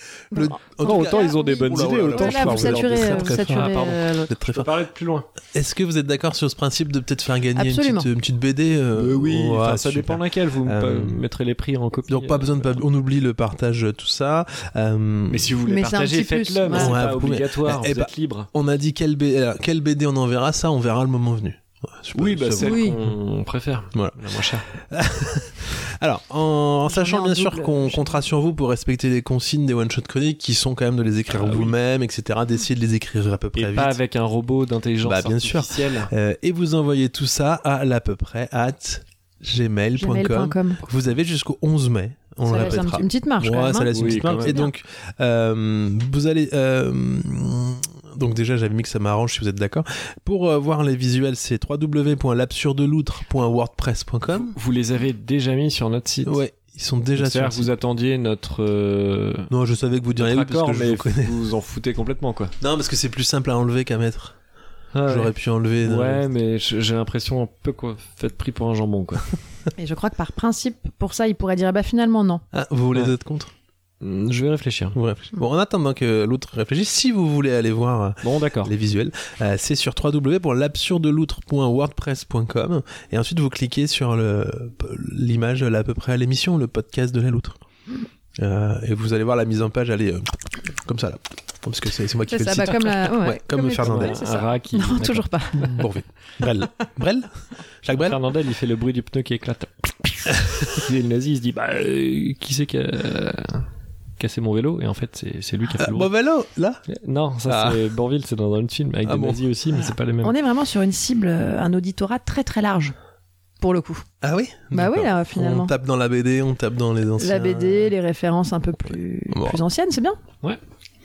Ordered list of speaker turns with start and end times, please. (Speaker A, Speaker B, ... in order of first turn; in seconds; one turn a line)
Speaker A: 0.3-4.7
Speaker B: 0.3-1.6
Speaker C: 0.8-5.3
Speaker B: 2.1-4.3
Speaker A: 5.5-11.2
Speaker B: 7.5-8.1
Speaker C: 8.9-12.8
Speaker A: 12.1-15.5
Speaker C: 15.3-18.5
Speaker B: 15.7-17.0
Speaker A: 16.7-22.9
Speaker C: 22.1-24.7
Speaker B: 22.6-23.0
Speaker A: 24.7-34.0
Speaker B: 26.9-28.2
Speaker C: 31.3-31.7
Speaker C: 33.5-36.1
Speaker A: 35.0-54.5
Speaker B: 40.0-40.8
Speaker B: 42.5-44.7
Speaker C: 43.9-44.7
Speaker C: 54.3-56.4
Speaker A: 56.2-57.7
Speaker C: 57.2-59.5
Speaker A: 59.5-61.4
Speaker C: 60.1-62.5
Speaker A: 62.6-64.4
Speaker C: 64.9-69.3
Speaker A: 65.0-66.2
Speaker B: 69.8-72.4
Speaker A: 72.5-73.5
Speaker C: 74.0-75.0
Speaker A: 75.0-87.6
Speaker C: 78.2-78.7
Speaker A: 88.4-94.2
Speaker B: 92.3-95.7
Speaker C: 93.7-95.7
Speaker A: 95.6-97.3
Speaker A: 97.8-98.2
Speaker C: 97.9-103.7
Speaker C: 104.2-106.1
Speaker A: 105.8-106.8
Speaker C: 106.9-110.3
Speaker A: 107.5-107.8
Speaker A: 109.0-109.5
Speaker B: 110.2-112.9
Speaker B: 113.6-114.0
Speaker A: 114.2-117.9
Speaker B: 114.7-115.7
Speaker B: 117.2-120.2
Speaker A: 119.3-119.6